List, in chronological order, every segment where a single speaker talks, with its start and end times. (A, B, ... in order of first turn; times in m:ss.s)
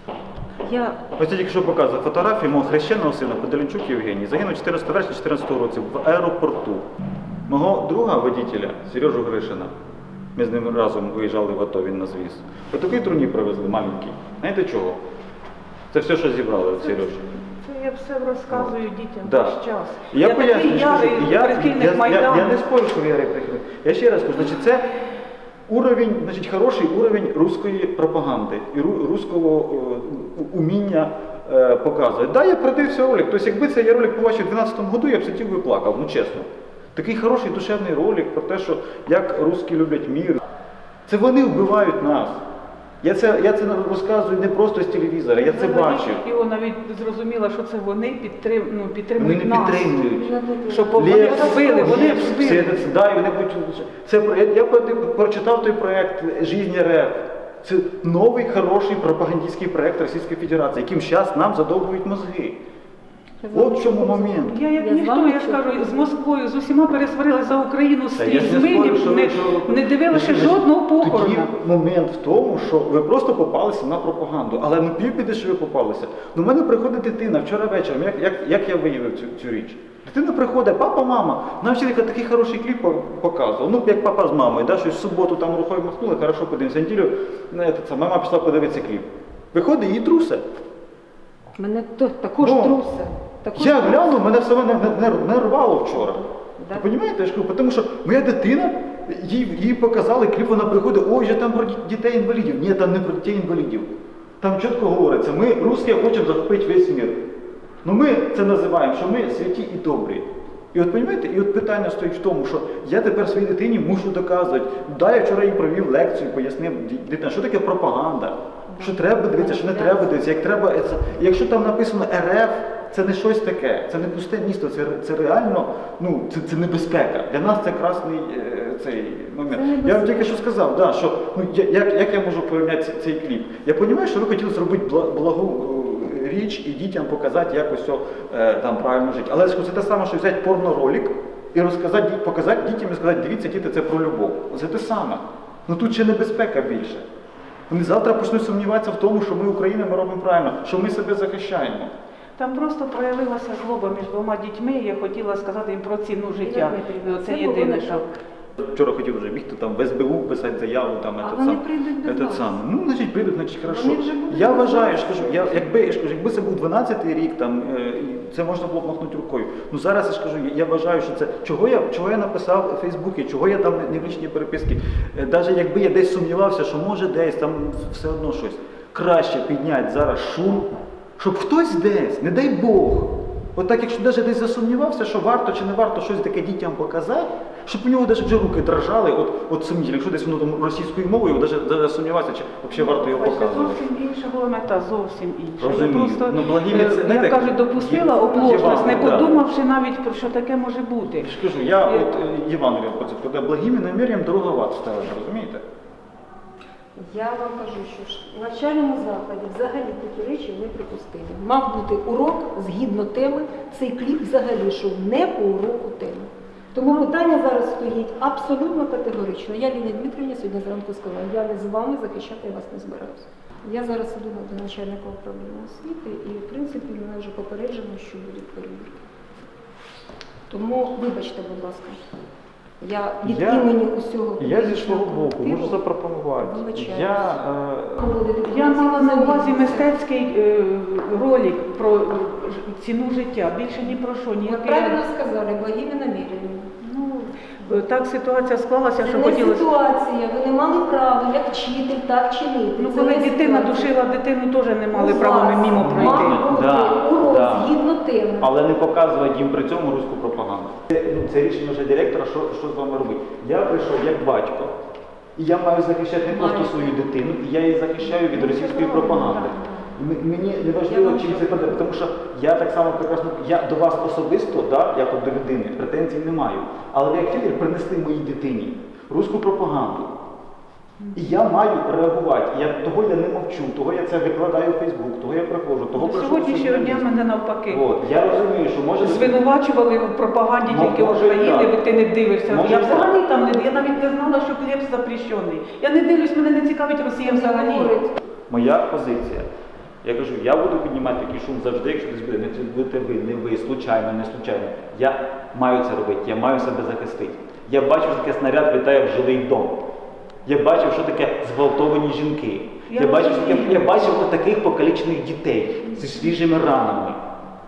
0:00.6-0:01.0 A
0:01.2-0:06.8 B
0:07.5-0:09.7 B
0:10.4-0:15.0 B
0:15.9-0:17.3 B
0:16.8-0:22.6 C
0:18.5-0:19.6 B
0:20.1-0:24.9 B
0:25.7-0:40.4 B
0:41.1-0:42.4 B
0:43.0-0:46.2 B
0:45.4-0:49.9 C
0:49.2-0:50.3 B
0:50.0-0:52.2 A
0:50.7-0:52.8 C
0:50.9-1:02.6 B
1:03.4-1:05.6 A
1:03.5-1:04.6 B
1:04.4-1:11.5 C
1:08.1-1:30.4 B
1:31.6-1:34.2 A
1:32.4-1:32.8 B
1:33.5-1:47.2 B
1:36.6-1:36.8 A
1:47.8-2:27.0 B
1:58.7-2:00.1 A
2:09.5-2:10.4 A
2:27.7-2:31.9 B
2:32.4-2:38.0 C
2:36.4-2:38.2 A
2:38.6-3:13.8 B
2:41.2-2:42.5 A
2:43.6-2:45.7 A
3:12.7-3:21.3 C
3:15.6-3:19.3 B
3:18.3-3:19.3 A
3:21.1-3:25.6 B
3:27.0-3:48.9 A
3:36.8-3:37.1 C
3:50.5-3:52.0 A
3:52.8-3:55.8 A
3:53.2-3:53.7 B
3:54.4-3:58.1 B
3:56.4-3:57.3 A
3:58.0-3:59.9 A
3:58.5-4:05.0 C
4:04.4-4:06.7 A
4:06.8-4:09.6 C
4:09.0-4:13.9 A
4:12.8-4:16.4 C
4:14.9-4:18.5 A
4:15.7-4:17.8 B
4:18.4-4:24.8 B
4:25.4-4:40.1 B
4:26.3-4:27.0 A
4:28.3-4:29.7 A
4:28.4-4:29.5 C
4:30.9-4:31.8 A
4:41.1-4:47.1 B
4:46.0-4:47.8 C
4:47.7-4:49.4 B
4:49.0-4:57.9 C
4:50.6-4:51.8 B
4:52.5-4:53.1 B
4:57.2-4:58.2 A
4:58.5-4:59.5 B
5:00.0-5:09.8 B
5:10.4-5:17.2 B
5:12.9-5:14.2 C